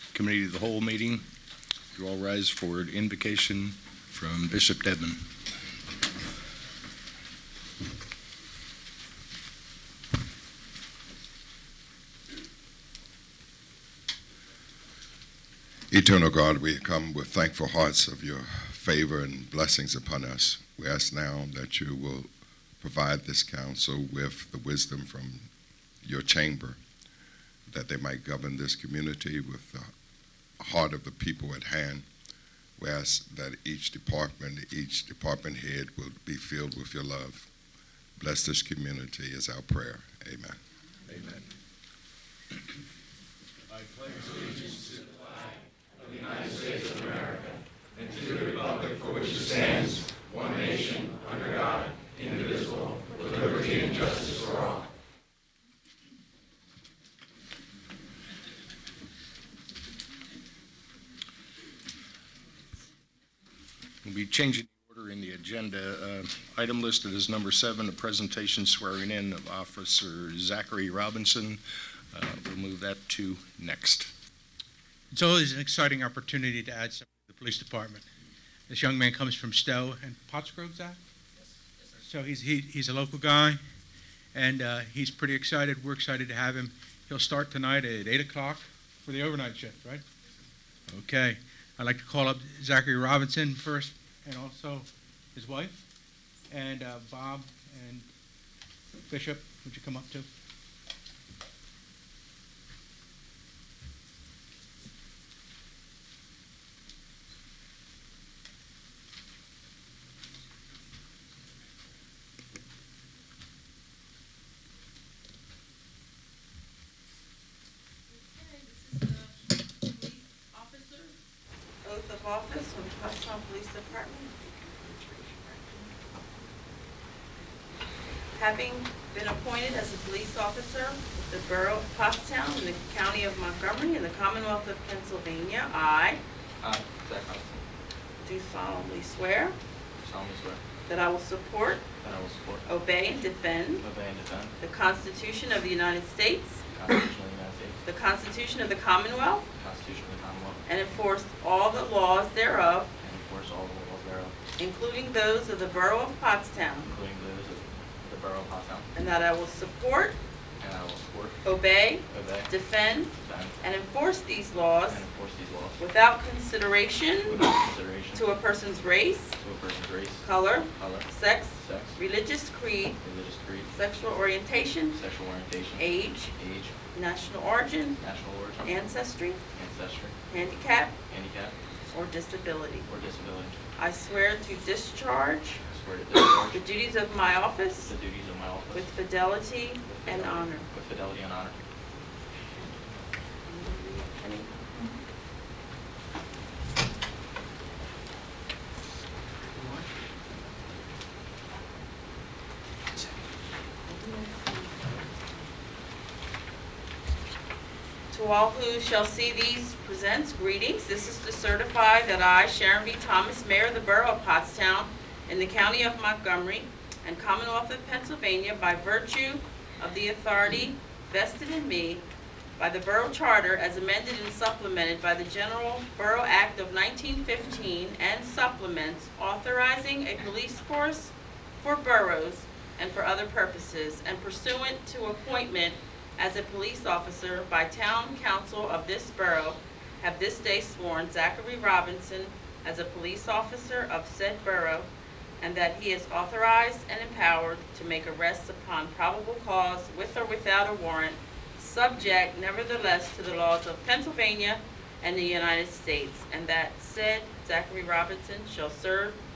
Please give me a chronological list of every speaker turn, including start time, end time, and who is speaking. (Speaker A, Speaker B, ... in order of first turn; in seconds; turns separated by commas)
Speaker A: 0.1-1.2, Speaker A: 1.9-5.2, Speaker B: 15.9-22.3, Speaker B: 22.8-25.5, Speaker B: 26.0-26.8, Speaker B: 27.7-29.9, Speaker B: 30.6-32.1, Speaker B: 32.8-37.5, Speaker B: 38.2-41.5, Speaker A: 64.0-71.6, Speaker A: 72.1-74.1, Speaker C: 75.1-78.0, Speaker C: 78.7-81.0, Speaker C: 82.0-83.6, Speaker C: 84.3-90.0, Speaker C: 90.9-95.8, Speaker C: 96.5-98.1, Speaker C: 99.1-100.3, Speaker D: 118.1-121.2, Speaker D: 121.8-125.9, Speaker D: 128.3-136.2, Speaker E: 136.6-137.6, Speaker D: 138.2-139.6, Speaker E: 140.0-140.6, Speaker D: 140.9-141.9, Speaker E: 142.0-142.6, Speaker D: 142.7-143.8, Speaker E: 143.8-144.5, Speaker D: 144.6-146.6, Speaker E: 146.7-147.8, Speaker D: 147.8-149.5, Speaker E: 149.6-150.6, Speaker D: 150.7-152.9, Speaker E: 153.0-154.3, Speaker D: 154.6-156.9, Speaker E: 156.8-158.9, Speaker D: 158.9-160.2, Speaker E: 160.6-161.4, Speaker D: 161.4-165.0, Speaker E: 162.1-162.5, Speaker E: 163.2-163.6, Speaker E: 164.9-165.8, Speaker D: 165.8-167.4, Speaker E: 167.2-168.3, Speaker D: 168.1-169.3, Speaker E: 169.4-172.0, Speaker D: 170.2-173.0, Speaker E: 173.0-173.7, Speaker D: 173.7-175.0, Speaker E: 174.9-175.8, Speaker D: 175.8-176.3, Speaker E: 176.3-176.7, Speaker D: 176.9-178.0, Speaker E: 178.0-178.7, Speaker D: 178.6-179.4, Speaker E: 179.5-180.2, Speaker D: 180.3-181.0, Speaker E: 181.1-181.6, Speaker D: 181.9-182.9, Speaker E: 182.9-183.6, Speaker D: 183.8-185.6, Speaker E: 185.7-186.6, Speaker D: 186.5-187.9, Speaker E: 187.8-188.9, Speaker D: 188.7-190.7, Speaker E: 189.8-191.6, Speaker D: 193.5-194.7, Speaker D: 203.9-204.7, Speaker D: 208.1-222.0, Speaker D: 222.6-244.9, Speaker D: 245.4-259.2